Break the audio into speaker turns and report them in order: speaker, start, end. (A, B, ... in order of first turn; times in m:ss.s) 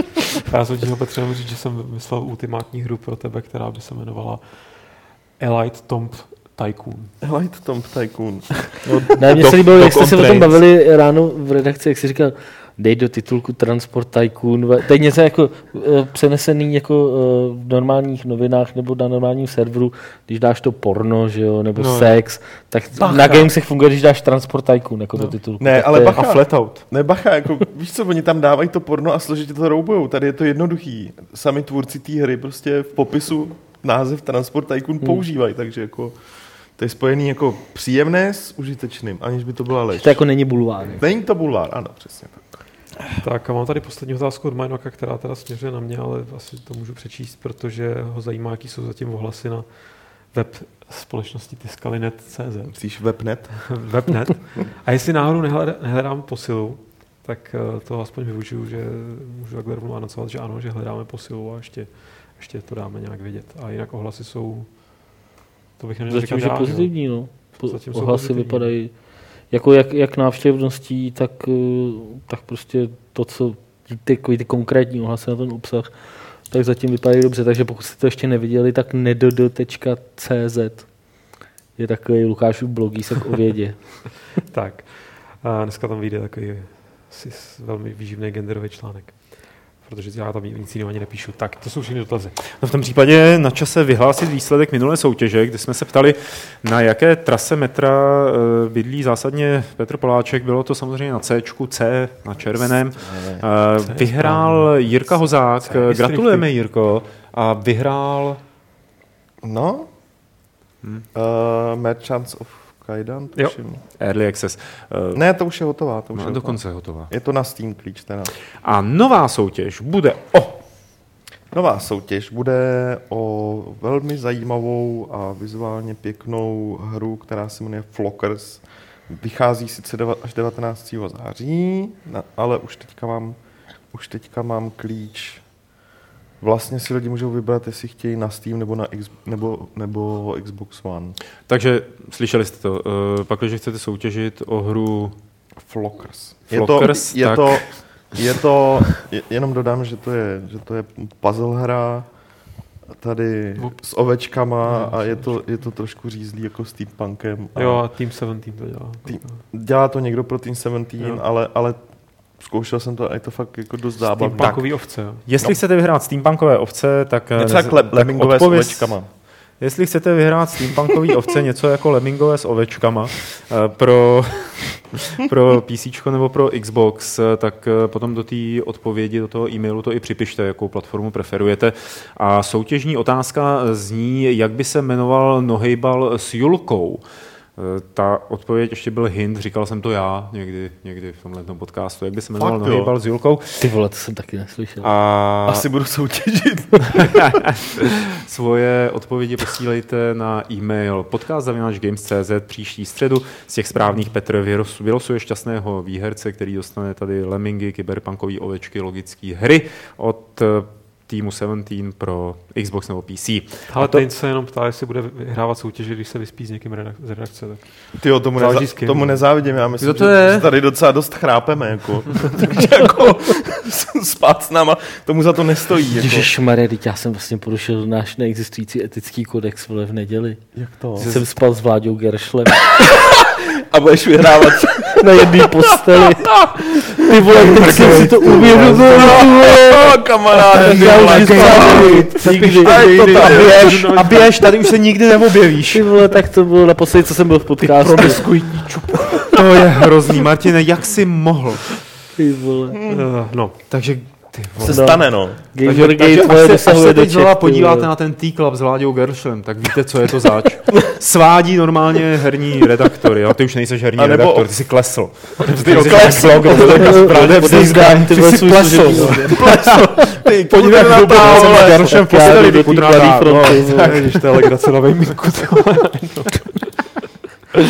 0:00.4-0:07.1 A
0:07.2-0:08.8 B
0:08.8-0:10.6 C
0:09.2-0:26.2 D
0:21.8-0:22.3 C
0:23.0-0:23.5 A
0:25.6-0:42.6 B
0:26.1-0:26.8 C
0:39.9-0:41.0 D
0:43.1-1:05.2 A
0:52.7-0:54.2 B
1:05.8-1:08.7 A
1:06.1-1:24.3 D
1:24.3-1:32.4 A
1:32.5-1:48.4 C
1:43.1-1:43.4 D
1:43.8-1:46.5 A
1:49.4-1:49.9 B
1:51.1-1:53.8 B
1:54.0-1:55.3 C
1:55.1-1:58.4 B
1:56.1-1:57.1 C
1:58.6-2:00.6 C
2:01.5-2:15.7 B
2:16.4-2:21.2 B
2:21.5-2:25.2 C
2:25.6-2:37.8 B
2:26.5-2:28.0 C
2:33.6-2:35.6 A
2:37.5-2:39.4 A
2:39.0-2:44.6 B
2:41.0-2:41.2 A
2:44.0-2:45.5 A
2:44.4-3:07.0 C
2:47.4-2:49.1 B
3:07.6-3:13.6 C
3:12.4-3:12.9 B
3:13.6-3:14.9 D
3:14.8-3:15.7 C
3:15.4-3:17.5 B
3:17.1-3:34.1 C
3:33.7-3:40.2 A
3:38.0-3:46.3 B
3:39.8-3:40.5 C
3:45.9-3:52.9 D
3:50.5-3:51.1 B
3:51.0-3:51.4 C
3:53.0-3:55.2 B
3:55.0-4:03.3 D
3:57.2-4:03.7 B
3:57.6-3:58.9 A
3:57.8-3:59.2 C
4:00.6-4:06.1 C
4:00.8-4:04.6 A
4:05.7-4:08.2 D
4:07.6-4:09.5 A
4:09.3-4:11.8 C
4:12.2-4:12.8 D
4:12.7-4:13.0 B
4:12.9-4:14.2 A
4:13.7-4:15.0 C
4:14.6-4:15.4 B
4:14.6-4:17.9 D
4:15.6-4:30.0 C
4:24.0-4:27.7 B
4:25.5-4:29.5 A
4:26.5-4:29.7 D
4:29.3-4:32.7 B
4:30.5-4:32.6 A
4:30.6-4:34.3 C
4:31.1-4:34.1 D
4:33.2-4:36.9 A